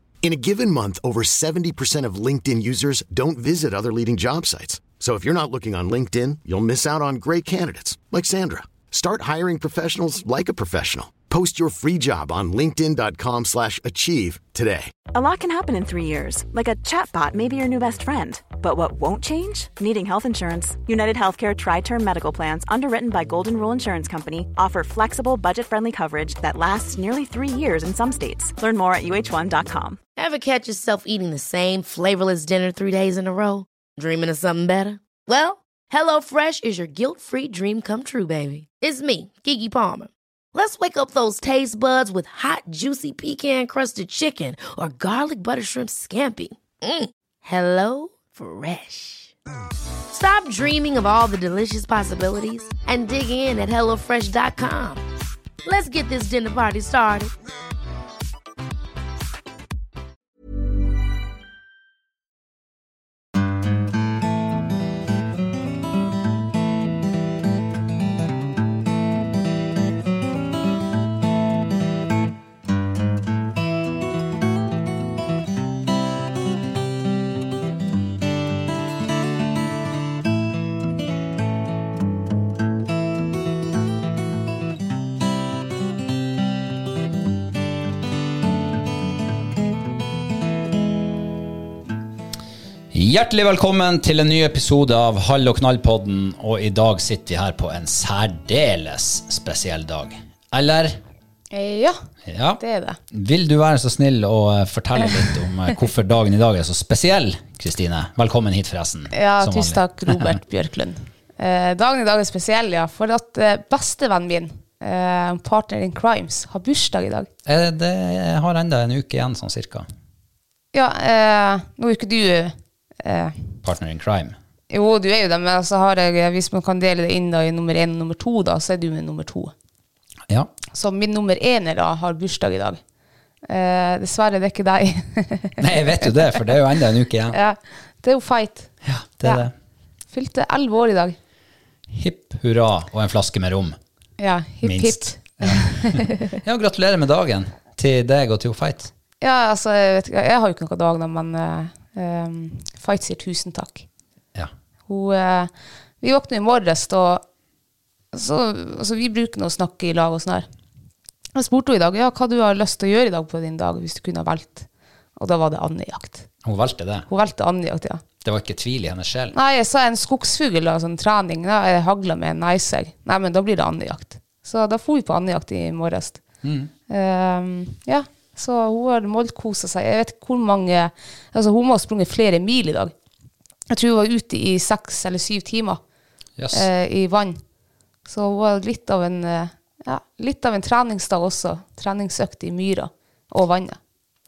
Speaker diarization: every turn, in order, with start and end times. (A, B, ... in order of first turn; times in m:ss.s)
0:00.2-0:14.9 A
0:15.1-0:30.0 B
0:30.2-0:49.3 C
0:50.1-0:55.0 C
0:55.6-0:57.3 C
1:32.9-1:41.0 D
1:41.5-1:42.0 E
1:42.2-1:50.4 D
1:42.6-1:43.0 E
1:49.1-1:57.3 E
1:57.4-1:59.9 D
2:00.7-2:03.4 E
2:03.6-2:04.4 D
2:04.7-2:09.5 E
2:10.7-2:12.8 E
2:13.5-2:15.6 E
2:15.6-2:17.4 D
2:17.3-2:18.7 E
2:18.8-2:19.5 D
2:20.1-2:21.2 E
2:21.9-2:23.8 D
2:24.2-2:26.3 E
2:24.6-2:28.9 D
2:29.2-2:33.8 E
2:34.9-2:37.2 E
2:38.1-2:40.4 E
2:41.3-2:46.3 E
2:46.4-2:47.1 D
2:47.1-2:48.0 E
2:48.2-2:49.4 D
2:49.3-2:56.2 E
2:56.4-2:56.7 D
2:56.9-3:02.9 E
3:03.7-3:05.8 E
3:06.4-3:06.7 D
3:06.5-3:07.4 E
3:08.1-3:13.8 E